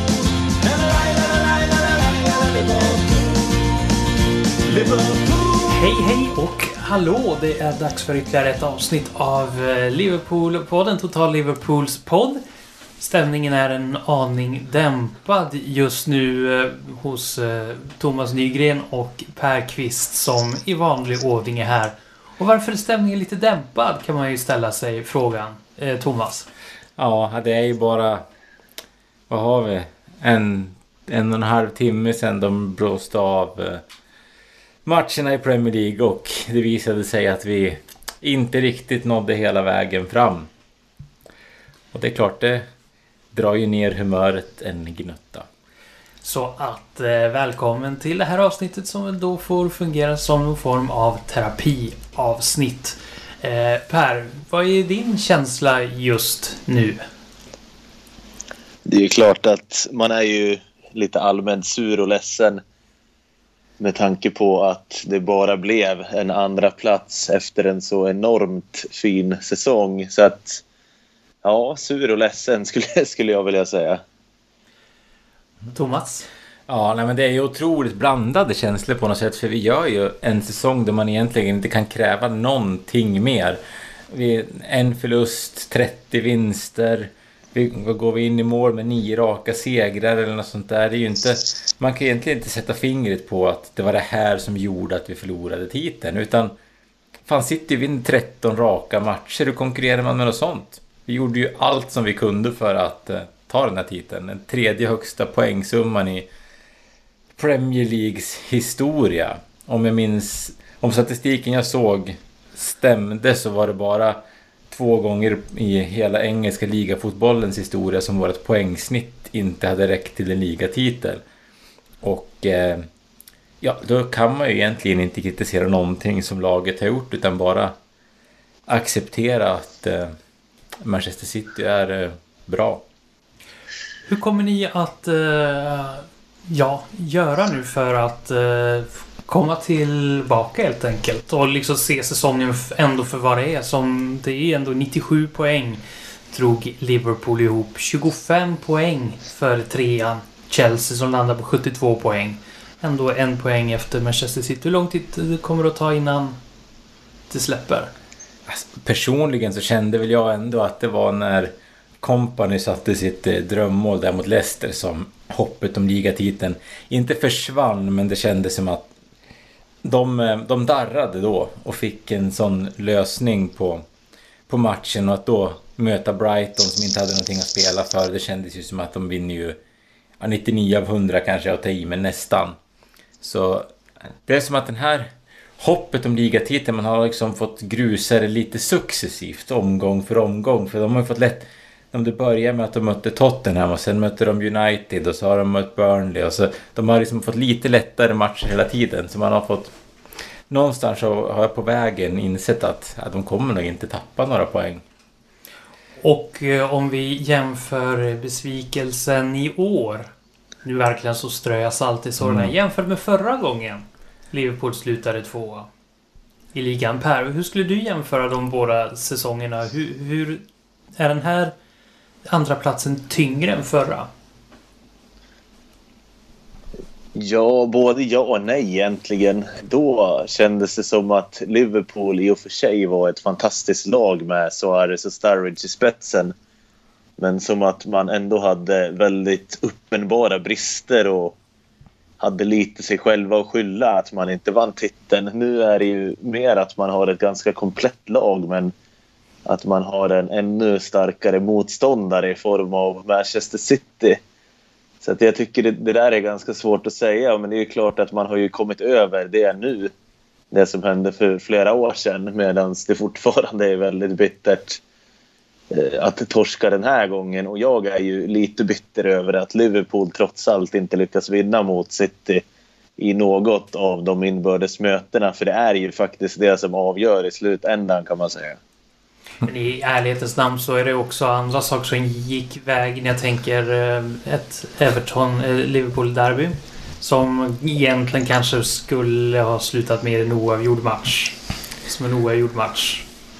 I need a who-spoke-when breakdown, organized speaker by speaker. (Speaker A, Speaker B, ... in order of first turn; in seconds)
Speaker A: 0.6-3.9, 4.6-5.9
Speaker B: 5.7-12.4, 13.0-26.5, 46.2-57.0, 75.7-76.3, 134.1-156.4, 157.3-157.9, 206.0-210.1, 210.6-215.7, 216.5-220.4, 221.0-221.5, 222.2-224.1, 279.4-293.1
Speaker C: 27.0-28.2, 29.3-33.8, 34.8-40.5, 41.9-42.6, 43.3-45.5, 76.7-96.5, 97.2-106.3, 107.3-121.2, 122.0-122.9, 123.6-127.7, 128.7-130.1, 130.8-132.8, 158.5-168.9, 169.8-173.8, 174.5-179.6, 180.2-182.6, 183.2-183.7, 184.2-199.7, 200.5-204.8, 212.2-212.5
Speaker D: 58.8-62.6, 63.8-70.6, 71.4-74.0, 227.1-236.3, 237.2-241.4, 242.2-248.7, 249.4-254.2, 255.0-259.9, 260.5-264.8, 265.7-272.4, 273.0-278.6